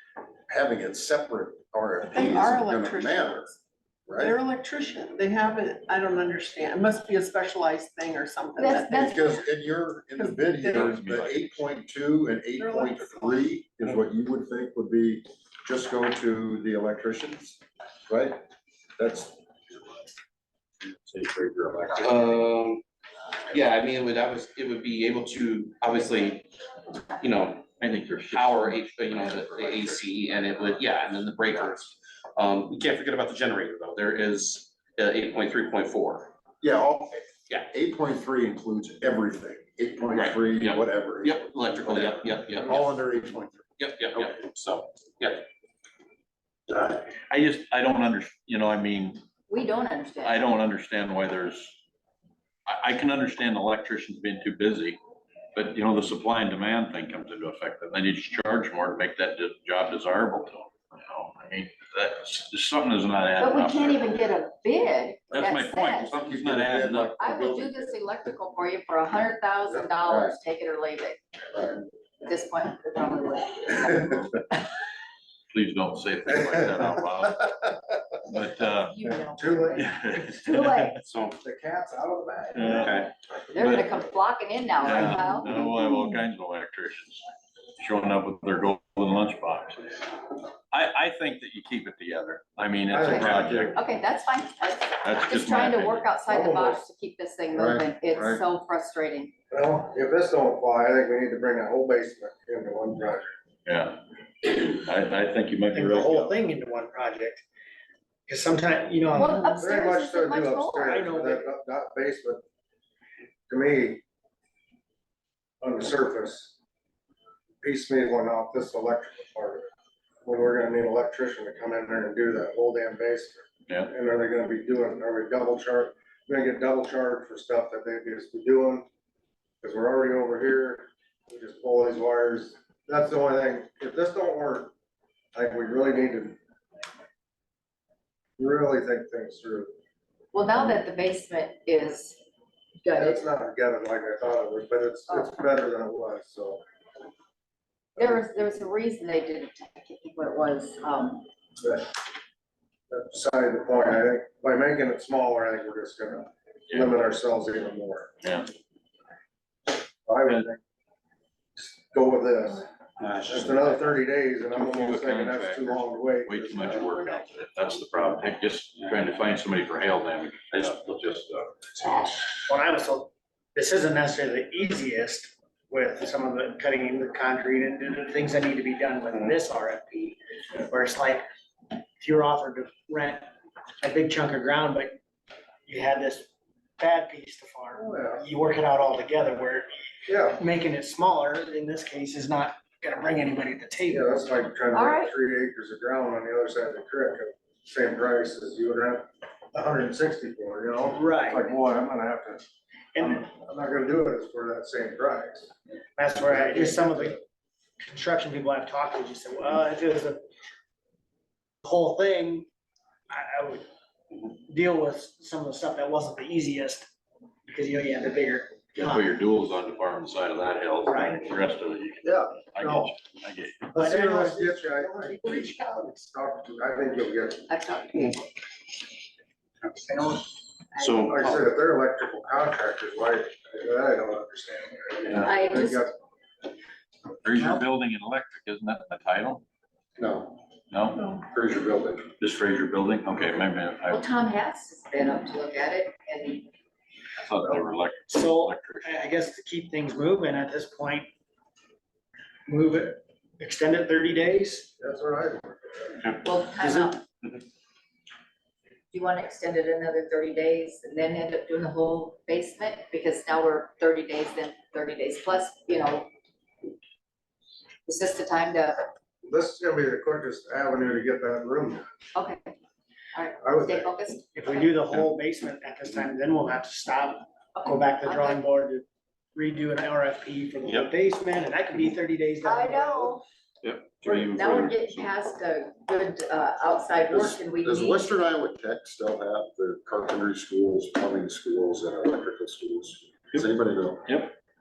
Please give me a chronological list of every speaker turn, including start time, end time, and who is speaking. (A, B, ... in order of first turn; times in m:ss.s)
0:00.5-0:03.5 A
0:02.1-0:03.6 B
0:04.1-0:04.4 A
0:04.2-0:09.4 B
0:08.5-0:09.4 C
0:08.9-0:18.4 A
0:10.2-0:10.9 B
0:10.6-0:11.6 D
0:12.5-0:13.4 B
0:19.0-0:19.4 A
0:20.8-0:22.3 D
0:22.0-0:22.8 E
0:23.5-0:26.5 E
0:27.2-0:27.7 E
0:27.8-0:30.8 D
0:28.3-0:36.3 E
0:36.6-0:44.3 A
0:40.1-0:42.9 E
0:43.8-0:45.4 E
0:47.3-0:49.2 D
0:49.5-0:50.5 C
0:50.2-0:51.8 D
0:52.7-0:55.0 D
0:55.5-1:04.2 D
1:03.4-1:06.2 C
1:05.3-1:07.2 D
1:06.0-1:08.0 A
1:07.2-1:11.2 C
1:10.1-1:10.4 A
1:12.2-1:14.2 C
1:15.5-1:17.7 D
1:18.2-1:19.0 D
1:18.8-1:19.8 C
1:19.3-1:19.9 F
1:19.8-1:21.0 D
1:20.4-1:21.0 C
1:21.1-1:21.4 E
1:21.3-1:22.9 F
1:22.5-1:23.8 D
1:22.8-1:23.1 E
1:23.5-1:25.5 C
1:24.8-1:27.2 D
1:27.8-1:30.2 D
1:30.7-1:33.8 D
1:32.9-1:33.7 F
1:33.0-1:39.3 C
1:35.0-1:36.0 D
1:36.3-1:36.8 F
1:37.5-1:37.9 A
1:38.1-1:38.4 F
1:39.5-1:43.3 F
1:43.6-1:46.3 D
1:45.7-1:47.4 G
1:48.3-1:49.6 G
1:49.1-1:50.9 C
1:49.6-1:52.4 F
1:50.8-1:51.5 G
1:53.5-1:54.0 F
1:55.6-1:56.6 F
1:57.6-1:59.7 F
2:00.2-2:08.8 F
2:09.6-2:14.7 F
2:15.3-2:16.4 F
2:18.4-2:19.7 F
2:20.3-2:22.2 C
2:22.8-2:23.3 C
2:22.9-2:26.6 F
2:28.0-2:28.3 F
2:28.0-2:31.3 C
2:31.6-2:31.9 F
2:32.9-2:38.1 F
2:38.2-2:38.5 D
2:40.0-2:40.6 F
2:41.6-2:42.7 F
2:43.0-2:43.6 E
2:43.2-2:46.9 F
2:44.5-2:52.3 D
2:52.4-3:03.3 G
3:03.8-3:05.0 G
3:05.6-3:14.2 G
3:07.7-3:08.2 F
3:10.0-3:10.4 F
3:13.9-3:22.4 F
3:14.7-3:15.1 C
3:20.9-3:21.4 G
3:22.9-3:23.3 G
3:23.0-3:25.5 F
3:26.0-3:27.2 G
3:26.2-3:27.2 F
3:27.8-3:30.2 G
3:31.6-3:32.5 G
3:33.1-3:33.6 G
3:34.4-3:36.9 G
3:37.5-3:39.1 G
3:38.8-3:43.8 D
3:40.9-3:41.2 G
3:42.0-3:42.9 F
3:43.7-3:46.0 G
3:43.7-3:47.5 F
3:47.5-3:48.2 C
3:50.7-3:51.2 C
3:51.0-3:55.9 F
3:55.1-3:55.9 C
3:57.2-3:59.4 D
4:00.0-4:00.4 A
4:00.7-4:01.1 D
4:01.2-4:02.1 A
4:02.2-4:04.0 D
4:03.9-4:06.5 C
4:07.2-4:09.1 D
4:08.1-4:11.1 G
4:12.5-4:14.7 G
4:14.8-4:16.0 F
4:16.2-4:17.0 C
4:18.9-4:26.1 C
4:27.8-4:28.9 C
4:29.2-4:31.8 F
4:32.1-4:32.5 C
4:33.1-4:34.8 C
4:33.4-4:33.9 F
4:34.3-4:43.2 G
4:37.5-4:38.4 C
4:42.4-4:43.2 C
4:44.0-4:44.8 D
4:44.0-4:48.1 C
4:47.1-4:54.1 A
4:54.0-4:54.3 D